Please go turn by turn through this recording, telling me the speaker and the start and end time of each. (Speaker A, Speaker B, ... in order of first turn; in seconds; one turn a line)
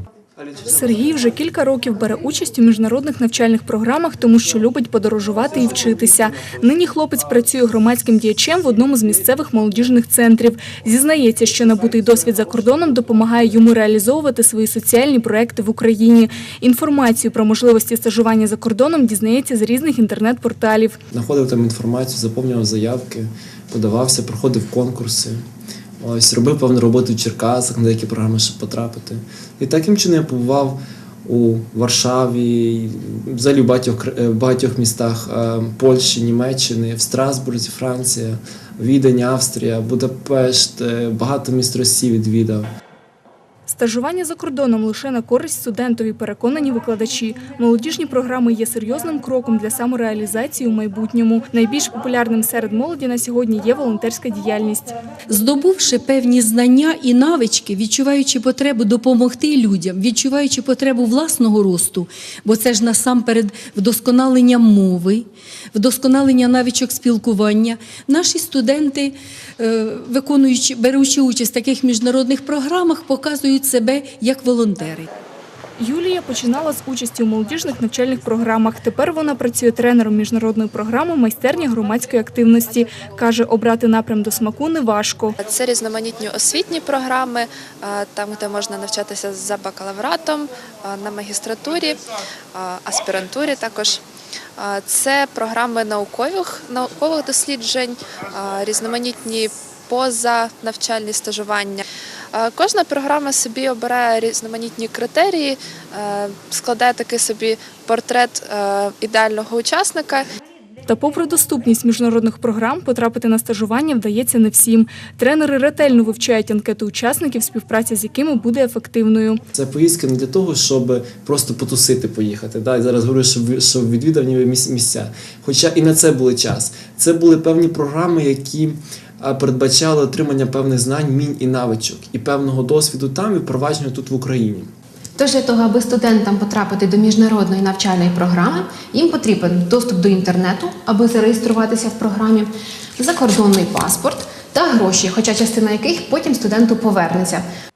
Speaker A: 0.4-0.7
Speaker B: 0.6-21.0
Speaker A: 21.1-25.4
Speaker A: 26.0-42.7
Speaker B: 43.7-55.0
Speaker C: 55.3-75.1
Speaker B: 75.8-85.4
Speaker D: 85.4-94.0
Speaker D: 94.6-110.2
Speaker B: 110.9-119.4
Speaker A: 119.5-134.7
Speaker E: 135.2-147.4